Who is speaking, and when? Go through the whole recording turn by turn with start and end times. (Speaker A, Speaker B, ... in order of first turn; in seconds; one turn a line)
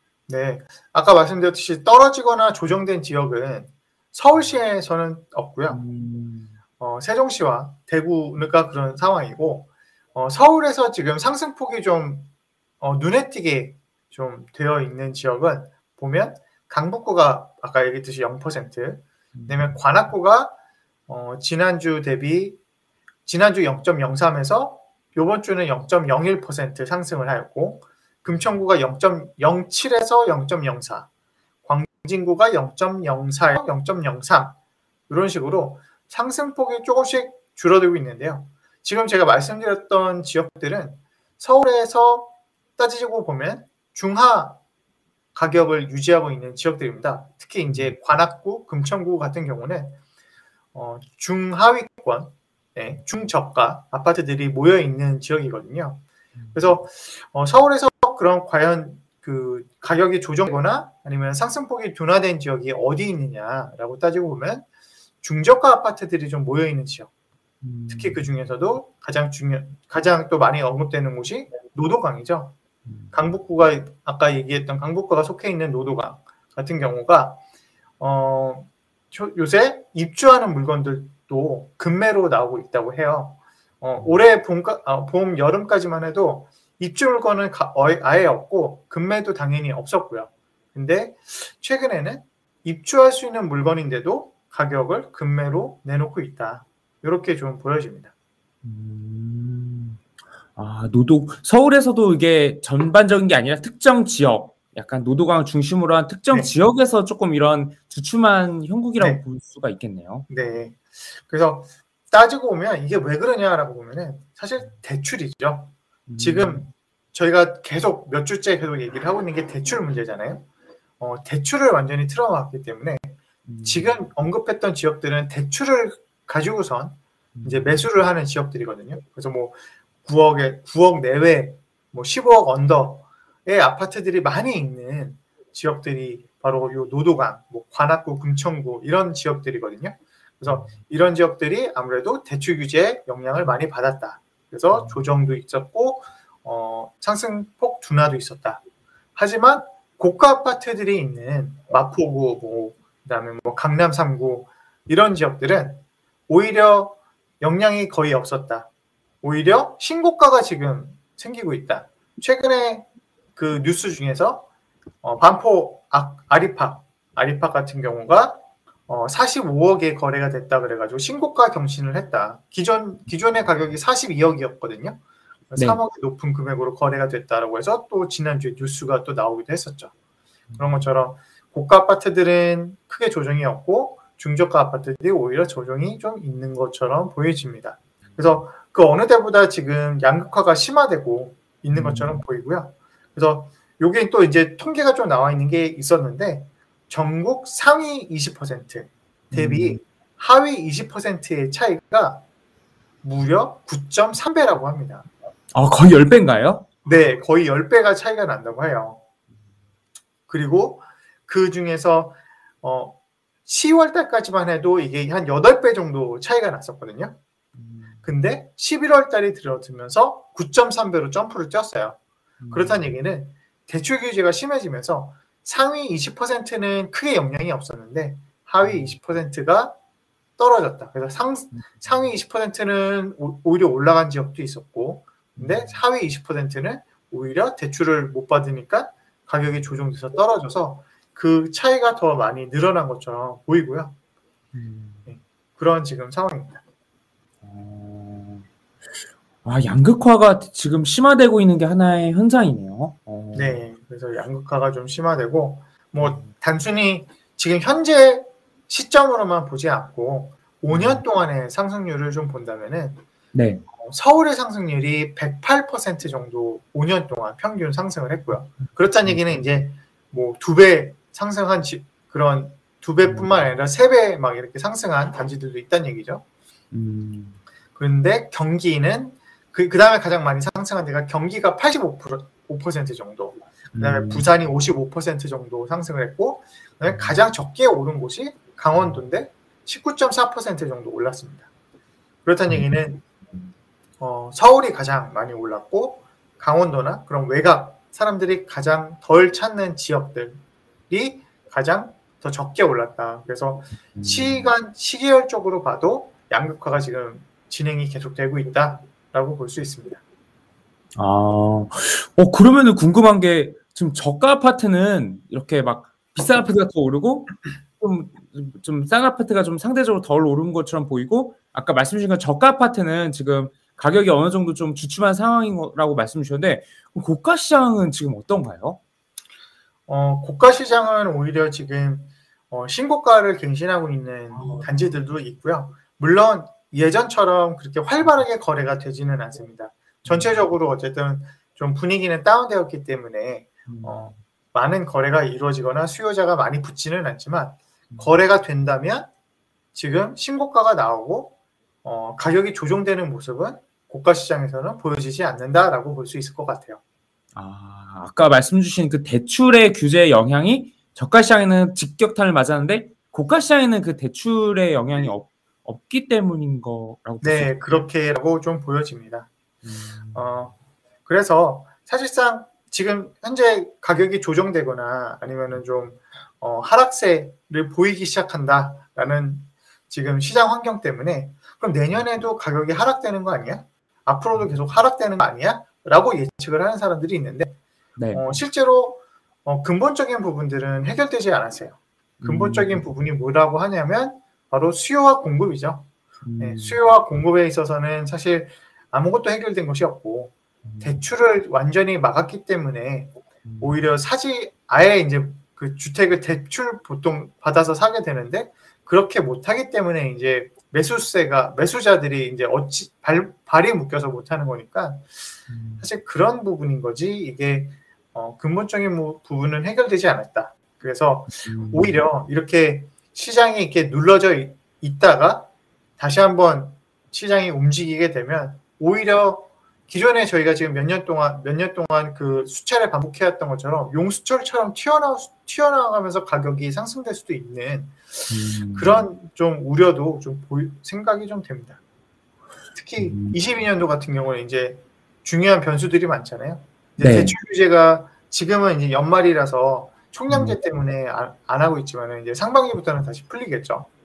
Speaker A: 0.3-5.8
Speaker B: 5.7-6.6
Speaker A: 6.8-12.3
Speaker A: 12.8-20.6
Speaker B: 19.3-19.8
Speaker A: 21.1-22.6
Speaker A: 23.2-31.1
Speaker B: 28.3-28.6
Speaker A: 31.6-34.6
Speaker A: 35.1-44.6
Speaker A: 45.3-50.0
Speaker B: 47.7-47.9
Speaker A: 50.7-64.7
Speaker B: 56.4-56.6
Speaker A: 65.2-67.1
Speaker B: 67.6-68.2
Speaker A: 67.9-72.5
Speaker B: 72.8-73.1
Speaker A: 73.1-77.4
Speaker A: 78.0-98.1
Speaker B: 84.0-84.2
Speaker B: 98.6-100.0
Speaker B: 100.5-110.3
Speaker A: 109.0-109.2
Speaker A: 110.3-120.5
Speaker B: 116.1-116.7
Speaker A: 121.0-148.6
Speaker B: 123.5-123.9
Speaker B: 127.3-127.8
Speaker B: 140.4-140.8
Speaker B: 144.7-145.0
Speaker A: 149.2-158.7
Speaker A: 159.2-164.5
Speaker A: 165.0-175.0
Speaker A: 175.5-179.9
Speaker B: 175.5-175.8
Speaker B: 180.5-180.9
Speaker A: 180.6-202.2
Speaker B: 188.1-188.3
Speaker B: 191.7-192.2
Speaker B: 199.3-199.8
Speaker A: 203.0-205.1
Speaker B: 205.5-206.7
Speaker A: 206.8-209.0
Speaker A: 210.3-217.2
Speaker B: 217.5-218.1
Speaker A: 218.0-222.0
Speaker B: 222.4-222.9
Speaker A: 222.5-229.8
Speaker B: 228.6-229.0
Speaker A: 230.4-243.9
Speaker B: 231.5-232.1
Speaker B: 235.3-235.8
Speaker B: 239.4-239.7
Speaker B: 244.5-245.1
Speaker A: 245.1-246.6
Speaker B: 247.4-248.4
Speaker B: 249.4-253.6
Speaker A: 253.3-263.0
Speaker B: 256.0-256.3
Speaker B: 260.7-261.0
Speaker B: 263.3-263.6
Speaker A: 263.7-276.2
Speaker B: 268.6-269.4
Speaker B: 273.0-273.4
Speaker B: 276.7-277.4
Speaker A: 277.8-291.5
Speaker B: 283.7-284.3
Speaker B: 286.8-287.2
Speaker B: 288.7-289.0
Speaker A: 292.2-293.0
Speaker B: 292.5-292.7
Speaker A: 294.0-310.0
Speaker B: 303.9-304.5
Speaker B: 310.9-328.8
Speaker A: 329.9-349.1
Speaker B: 334.3-334.7
Speaker B: 340.0-340.4
Speaker B: 343.7-344.2
Speaker B: 347.9-348.2
Speaker A: 349.7-356.8
Speaker B: 357.3-367.9
Speaker A: 367.2-369.3
Speaker B: 369.6-370.4
Speaker A: 370.1-370.5
Speaker A: 371.0-387.6
Speaker B: 384.3-384.6
Speaker B: 388.0-388.4
Speaker A: 388.1-415.1
Speaker B: 392.2-392.9
Speaker B: 396.2-396.8
Speaker B: 400.6-401.1
Speaker B: 403.4-403.8
Speaker B: 415.5-415.9
Speaker A: 415.8-441.8
Speaker B: 421.3-422.0
Speaker B: 438.3-439.1
Speaker A: 442.7-453.9
Speaker B: 443.0-443.4
Speaker B: 447.0-447.4
Speaker B: 450.3-450.6